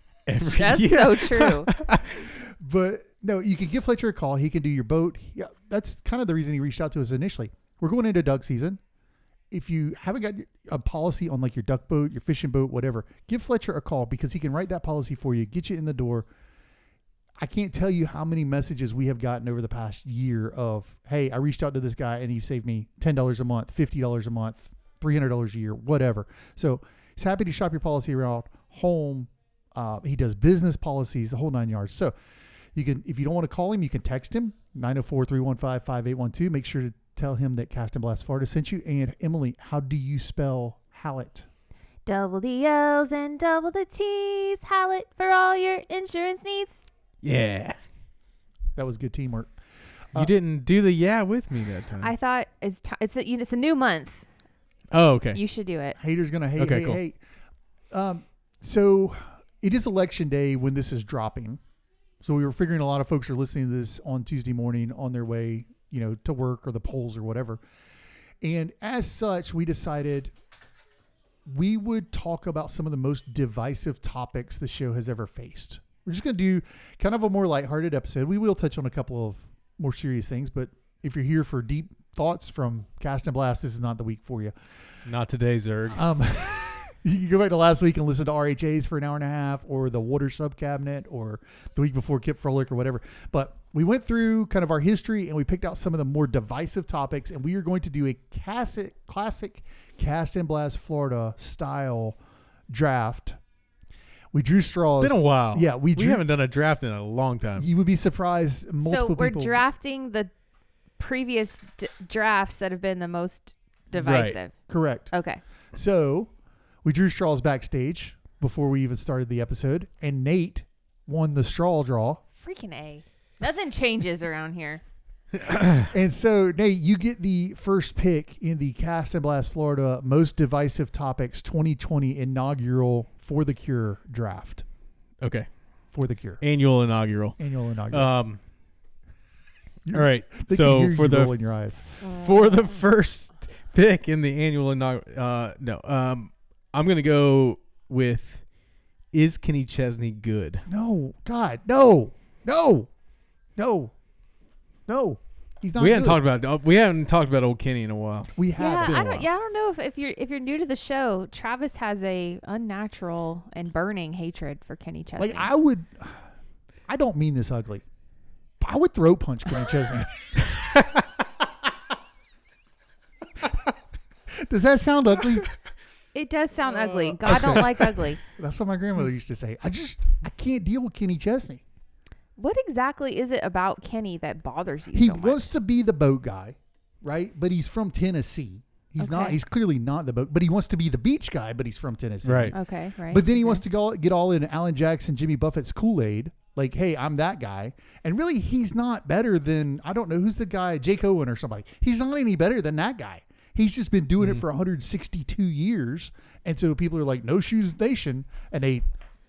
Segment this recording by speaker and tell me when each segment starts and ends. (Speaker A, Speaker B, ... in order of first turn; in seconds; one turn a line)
Speaker A: 0.3-2.3
Speaker B: 0.4-1.7
Speaker C: 2.3-8.8
Speaker C: 9.5-16.3
Speaker C: 17.4-32.1
Speaker C: 32.7-41.5
Speaker B: 42.0-46.9
Speaker A: 47.2-47.8
Speaker C: 48.8-49.5
Speaker A: 50.1-52.1
Speaker B: 52.0-54.2
Speaker A: 54.9-55.4
Speaker B: 55.3-56.0
Speaker C: 56.0-57.2
Speaker A: 56.6-57.0
Speaker C: 57.9-61.6
Speaker C: 62.2-67.6
Speaker C: 68.4-70.3
Speaker C: 71.5-84.5
Speaker A: 85.0-86.0
Speaker C: 85.9-102.2
Speaker C: 102.7-103.4
Speaker C: 104.3-106.2
Speaker A: 104.9-107.7
Speaker C: 107.5-109.6
Speaker B: 108.8-110.3
Speaker B: 111.0-114.5
Speaker A: 113.9-114.4
Speaker C: 114.7-115.1
Speaker B: 115.1-115.4
Speaker C: 115.7-116.3
Speaker C: 116.8-122.2
Speaker B: 122.4-124.8
Speaker A: 125.4-125.9
Speaker C: 125.8-134.6
Speaker A: 135.2-135.5
Speaker C: 135.9-136.4
Speaker A: 136.4-137.4
Speaker C: 137.4-138.1
Speaker A: 137.9-138.4
Speaker C: 139.8-141.8
Speaker A: 139.9-148.4
Speaker A: 149.1-150.6
Speaker C: 150.7-152.9
Speaker C: 153.6-153.9
Speaker C: 154.9-156.2
Speaker A: 155.8-158.3
Speaker C: 158.3-159.3
Speaker B: 158.6-165.5
Speaker C: 165.2-166.3
Speaker C: 166.9-167.8
Speaker C: 168.6-170.4
Speaker C: 173.4-173.7
Speaker C: 174.3-175.5
Speaker B: 176.1-178.2
Speaker C: 177.2-181.6
Speaker B: 182.4-185.5
Speaker C: 184.9-208.8
Speaker B: 189.0-189.4
Speaker A: 192.2-192.5
Speaker B: 192.5-193.6